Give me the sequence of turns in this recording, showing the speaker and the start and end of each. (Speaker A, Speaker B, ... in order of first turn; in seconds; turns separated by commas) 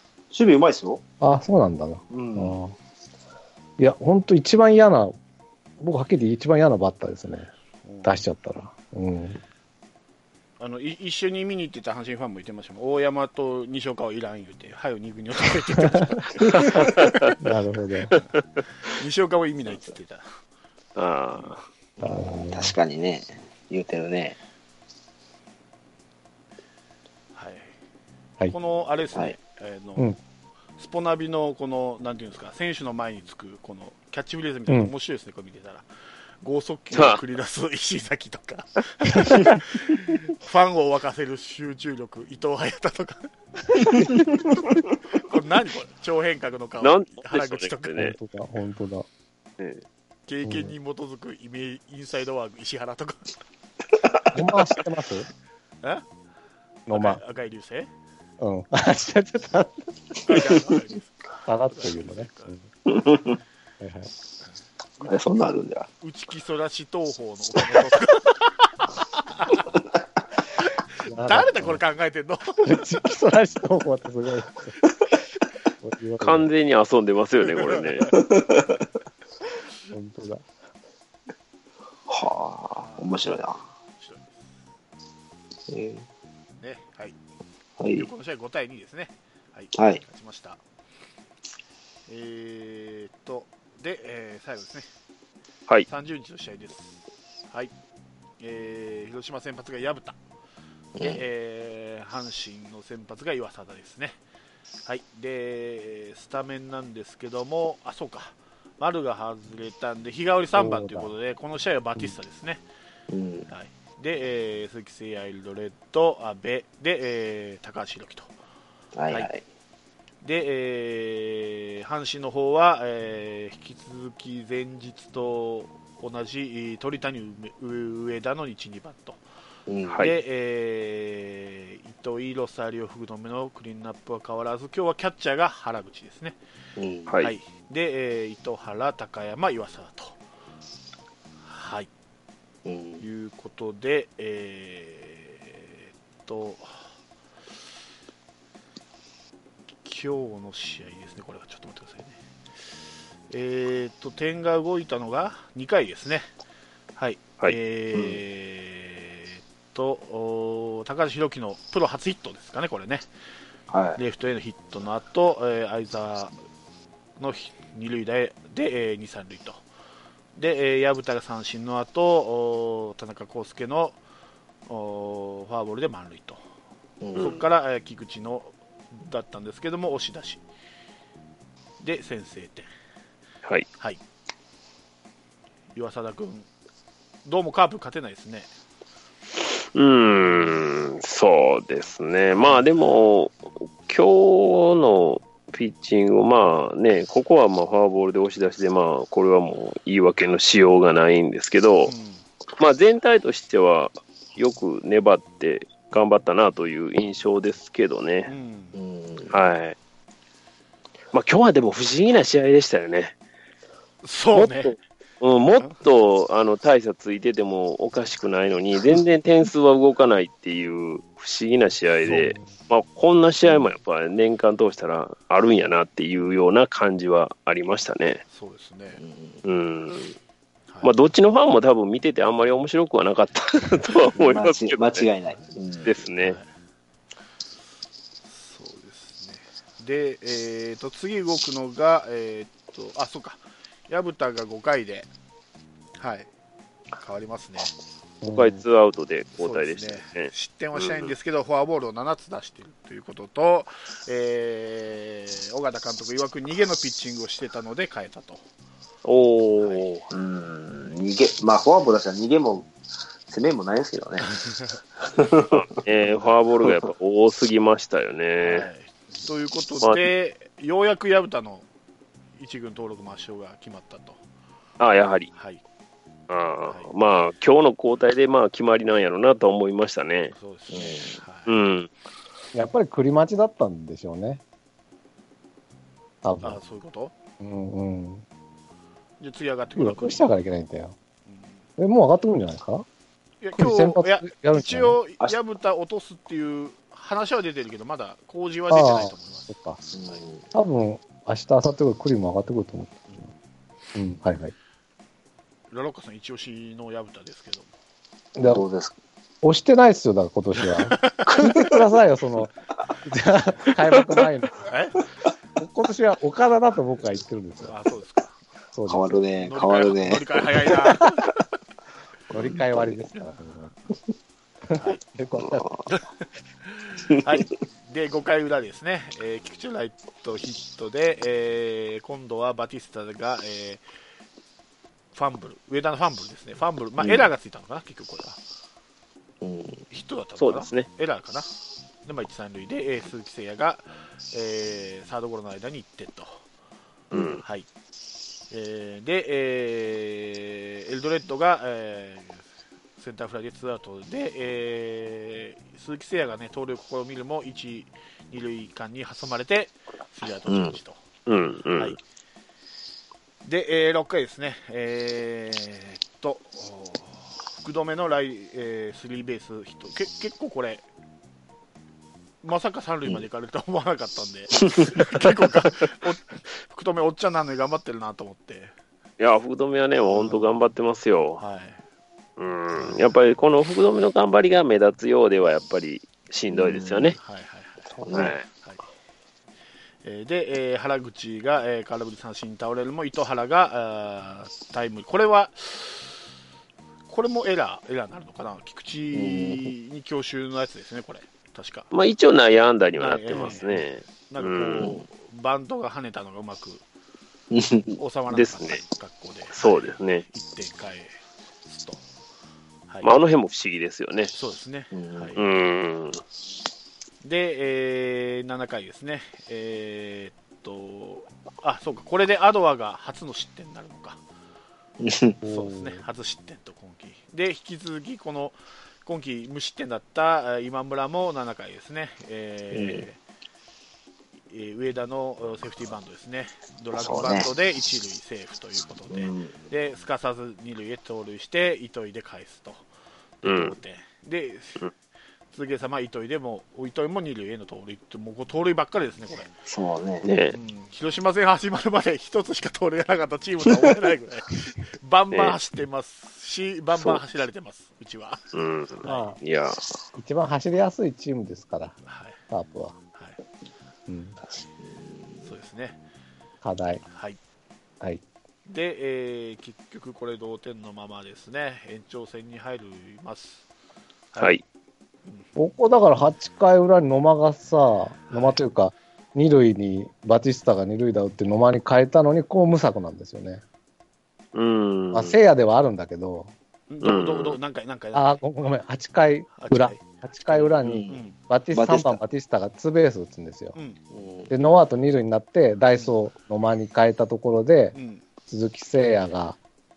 Speaker A: 0.3-1.0, Speaker B: 1.2-2.7, Speaker A: 2.1-2.6, Speaker B: 3.8-5.1, Speaker B: 5.8-7.5, Speaker C: 7.8-8.2, Speaker B: 8.0-9.4, Speaker C: 10.6-17.4, Speaker D: 16.6-17.2, Speaker B: 16.7-18.1, Speaker C: 18.9-20.2, Speaker D: 20.9-21.6, Speaker A: 22.0-24.4, Speaker B: 22.0-22.7, Speaker C: 27.3-27.8, Speaker C: 28.5-30.1, Speaker C: 30.8-35.9, Speaker C: 36.4-48.1, Speaker D: 36.9-37.2, Speaker D: 46.8-48.1, Speaker B: 48.0-49.0, Speaker D: 49.6-49.8, Speaker C: 50.3-53.3, Speaker B: 50.4-50.7, Speaker B: 54.3-55.3, Speaker B: 56.9-57.2, Speaker C: 56.9-57.9, Speaker B: 58.4-59.9, Speaker C: 60.2-62.6, Speaker B: 61.5-62.6, Speaker A: 62.9-63.4, Speaker B: 63.8-64.1, Speaker A: 65.0-65.9, Speaker C: 66.0-69.7, Speaker C: 70.6-73.0, Speaker B: 71.0-71.8, Speaker B: 72.6-74.8, Speaker B: 75.8-76.5, Speaker D: 76.2-78.1, Speaker C: 77.7-78.1, Speaker A: 78.1-78.8, Speaker B: 79.9-80.5, Speaker A: 82.1-83.6, Speaker C: 82.8-83.3, Speaker C: 84.0-84.5, Speaker A: 85.7-86.0, Speaker C: 86.6-87.2, Speaker A: 87.8-88.1, Speaker C: 87.9-90.6, Speaker A: 89.7-90.0, Speaker C: 92.1-94.8, Speaker C: 95.9-97.0, Speaker C: 98.4-100.2, Speaker C: 101.0-104.2, Speaker C: 104.8-112.6, Speaker B: 110.5-111.1, Speaker A: 113.1-113.5, Speaker C: 113.5-118.3, Speaker A: 118.9-119.4, Speaker C: 120.2-129.2, Speaker A: 129.7-130.0, Speaker D: 129.9-130.1, Speaker C: 129.9-136.4, Speaker A: 136.8-137.1, Speaker D: 137.1-137.3, Speaker C: 137.2-140.2, Speaker C: 141.4-141.9, Speaker A: 142.6-143.0, Speaker C: 143.0-146.8, Speaker C: 149.8-152.2, Speaker C: 153.3-156.2, Speaker C: 157.0-163.1, Speaker A: 157.9-158.2, Speaker A: 163.7-164.0, Speaker C: 163.9-166.3, Speaker C: 167.2-169.6, Speaker C: 170.3-174.0, Speaker C: 174.7-176.4, Speaker A: 177.0-177.4, Speaker C: 177.2-180.4, Speaker C: 181.8-182.7, Speaker C: 185.7-186.5, Speaker C: 187.2-188.5, Speaker D: 189.7-201.9, Speaker C: 190.2-190.5, Speaker C: 192.3-192.9, Speaker C: 201.9-202.2, Speaker D: 202.6-208.3, Speaker C: 208.3-208.8, Speaker A: 208.7-209.3, Speaker D: 209.3-209.8, Speaker D: 211.1-213.1, Speaker C: 214.0-214.8, Speaker D: 214.3-228.2, Speaker B: 222.1-222.4, Speaker A: 223.4-223.7, Speaker C: 228.3-229.0, Speaker A: 229.0-229.4, Speaker D: 229.4-230.2, Speaker C: 230.7-231.0, Speaker D: 230.8-235.1, Speaker A: 234.2-236.0, Speaker D: 235.8-236.4, Speaker C: 236.2-236.5, Speaker C: 238.3-245.1, Speaker C: 246.0-246.3, Speaker C: 247.0-247.7, Speaker B: 248.2-248.6, Speaker D: 248.3-251.1, Speaker C: 249.4-258.4, Speaker D: 259.0-260.1, Speaker C: 259.6-259.9, Speaker A: 260.1-262.7, Speaker A: 263.3-264.3, Speaker C: 264.3-264.8, Speaker A: 265.0-265.6, Speaker D: 265.5-268.7, Speaker A: 266.6-266.9, Speaker C: 268.4-271.6, Speaker C: 272.4-274.2, Speaker D: 274.8-275.3, Speaker C: 275.3-275.6, Speaker D: 276.3-280.3, Speaker C: 276.7-276.9, Speaker C: 280.3-281.6, Speaker A: 280.7-281.2, Speaker D: 281.5-281.9, Speaker B: 282.5-284.4, Speaker B: 286.2-286.6, Speaker C: 286.4-287.1, Speaker B: 287.4-288.2, Speaker C: 289.2-290.3, Speaker B: 289.8-290.9, Speaker C: 291.3-291.6, Speaker B: 291.8-292.9, Speaker C: 293.4-299.5, Speaker B: 293.6-295.0, Speaker B: 298.7-299.8, Speaker A: 299.9-300.4, Speaker B: 300.5-303.1, Speaker B: 303.9-304.5, Speaker C: 305.7-307.7, Speaker B: 308.4-308.6, Speaker A: 308.4-308.9, Speaker B: 309.4-314.7, Speaker C: 310.6-311.5, Speaker A: 311.3-311.7, Speaker C: 314.6-315.0, Speaker B: 315.6-317.7, Speaker C: 317.6-318.4, Speaker B: 318.7-319.2, Speaker A: 318.9-321.1, Speaker C: 319.4-321.2, Speaker A: 322.3-323.0, Speaker B: 322.3-323.7, Speaker B: 324.7-325.8, Speaker C: 324.8-325.0, Speaker A: 325.4-325.9, Speaker C: 326.6-333.8, Speaker A: 327.1-327.4, Speaker C: 335.1-338.4, Speaker A: 337.0-337.3, Speaker A: 339.4-339.8, Speaker C: 339.9-341.5, Speaker D: 340.4-340.9, Speaker C: 342.0-346.4, Speaker D: 347.1-347.4, Speaker A: 347.1-347.4, Speaker C: 348.5-352.4, Speaker C: 353.0-361.0, Speaker A: 360.5-360.8, Speaker D: 361.3-361.9, Speaker C: 363.4-370.8, Speaker C: 372.4-378.7, Speaker D: 379.2-381.4, Speaker C: 380.1-380.5, Speaker C: 381.4-381.8, Speaker D: 382.4-387.2, Speaker C: 382.7-383.1, Speaker A: 386.5-387.1, Speaker C: 387.2-388.8, Speaker A: 387.9-388.4, Speaker D: 388.1-388.4, Speaker C: 390.0-396.1, Speaker C: 397.1-401.9, Speaker A: 399.1-399.7, Speaker D: 401.9-405.0, Speaker C: 403.0-406.8, Speaker A: 407.5-407.9, Speaker C: 407.9-412.0, Speaker D: 408.3-408.8, Speaker D: 409.5-410.3, Speaker D: 413.0-414.3, Speaker C: 414.3-415.5, Speaker A: 414.9-415.3, Speaker D: 415.4-416.2, Speaker C: 417.2-424.2, Speaker A: 425.0-425.4, Speaker B: 425.4-426.0, Speaker C: 425.4-433.2, Speaker A: 432.7-433.1, Speaker C: 434.5-442.8, Speaker A: 436.9-437.5, Speaker A: 439.1-439.5, Speaker C: 443.4-444.9, Speaker D: 443.4-443.8, Speaker C: 445.5-449.5, Speaker A: 449.6-450.2, Speaker D: 450.2-450.5, Speaker C: 450.5-458.4, Speaker D: 455.3-455.6, Speaker D: 458.5-459.8, Speaker C: 459.0-459.3, Speaker B: 459.0-459.4, Speaker B: 460.1-462.0, Speaker C: 462.1-462.4, Speaker B: 462.5-462.9, Speaker B: 464.1-464.4, Speaker A: 464.4-465.5, Speaker C: 465.4-466.0, Speaker B: 466.6-467.0, Speaker C: 467.1-467.4, Speaker C: 468.7-473.6, Speaker C: 474.3-474.6, Speaker B: 475.6-483.6, Speaker C: 478.3-478.6, Speaker D: 484.5-485.4, Speaker B: 485.1-486.5, Speaker C: 486.9-488.4, Speaker D: 487.0-487.6, Speaker B: 488.1-493.8, Speaker C: 489.6-490.0, Speaker A: 490.7-492.2, Speaker C: 491.1-491.4, Speaker C: 493.7-494.0, Speaker A: 494.1-494.5, Speaker B: 494.5-497.9, Speaker C: 495.9-496.2, Speaker C: 497.9-498.2, Speaker B: 498.5-499.6